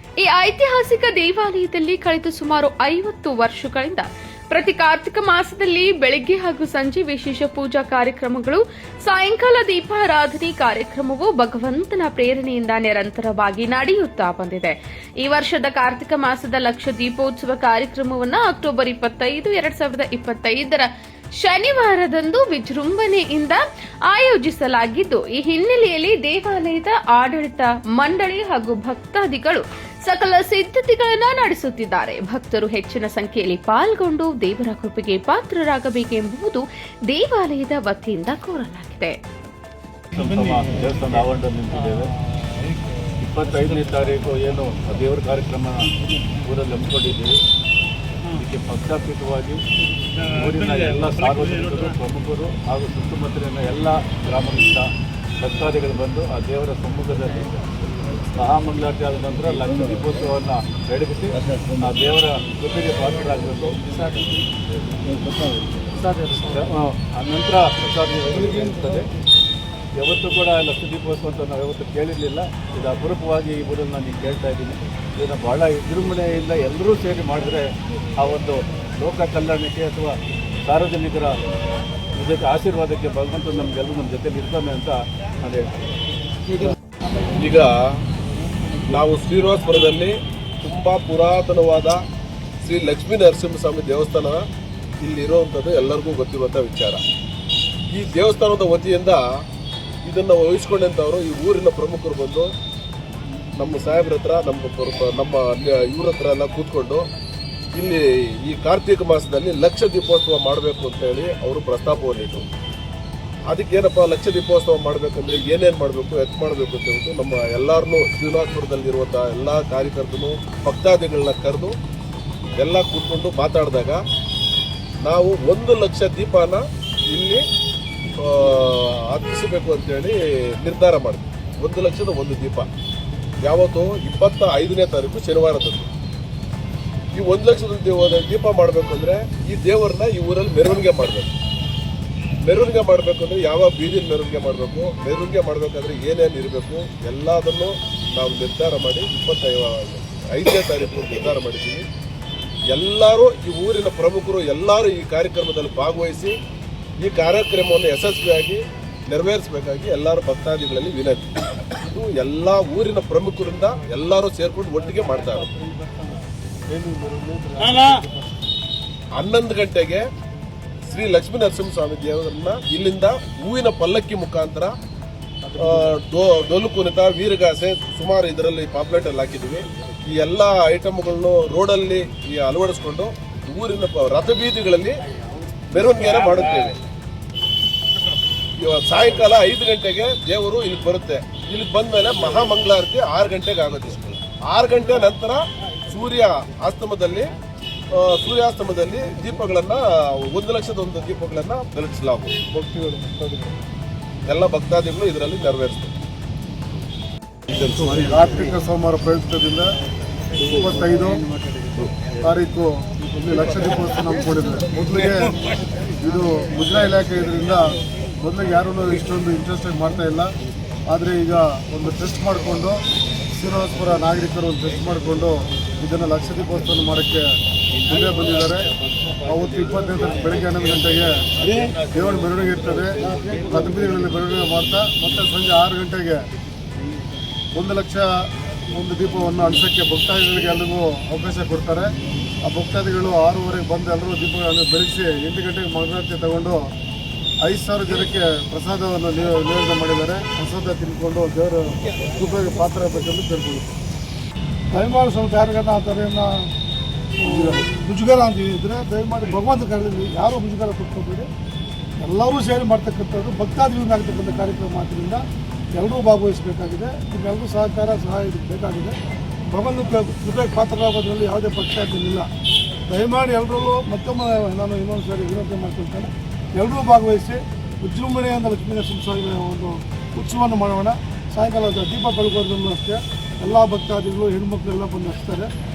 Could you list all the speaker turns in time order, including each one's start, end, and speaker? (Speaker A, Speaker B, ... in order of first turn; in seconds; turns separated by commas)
Speaker A: 0.2-39.2, Speaker B: 40.1-42.1, Speaker B: 43.2-47.4, Speaker B: 48.3-49.6, Speaker B: 50.2-57.6, Speaker B: 58.3-64.2, Speaker B: 66.1-69.1, Speaker B: 70.0-81.4, Speaker B: 82.2-85.7, Speaker C: 87.3-88.0, Speaker C: 88.8-92.0, Speaker C: 92.6-94.4, Speaker C: 95.0-97.0, Speaker C: 97.9-99.2, Speaker C: 100.0-102.5, Speaker C: 103.6-107.0, Speaker C: 107.7-112.5, Speaker C: 113.5-121.8, Speaker C: 122.6-124.0, Speaker C: 125.0-127.4, Speaker C: 128.2-132.7, Speaker C: 133.4-135.9, Speaker C: 137.1-141.3, Speaker C: 142.4-151.8, Speaker C: 152.7-156.4, Speaker C: 157.0-165.5, Speaker D: 166.7-168.3, Speaker C: 169.2-170.1, Speaker C: 170.8-174.7, Speaker C: 175.5-185.0, Speaker C: 185.7-186.8, Speaker C: 188.6-197.3, Speaker C: 197.9-202.3, Speaker D: 202.6-203.2, Speaker C: 204.2-205.9, Speaker D: 207.7-209.7, Speaker D: 210.4-211.3, Speaker D: 212.2-215.3, Speaker D: 216.0-220.3, Speaker D: 220.9-222.8, Speaker D: 223.4-227.3, Speaker D: 227.8-228.7, Speaker D: 229.2-236.2, Speaker D: 237.5-238.1, Speaker D: 238.7-241.9, Speaker D: 242.4-246.6, Speaker D: 247.4-253.7, Speaker E: 254.7-256.5, Speaker E: 257.2-261.3, Speaker D: 257.3-257.6, Speaker E: 262.0-265.2, Speaker E: 265.7-268.9, Speaker E: 269.5-272.3, Speaker E: 272.9-285.5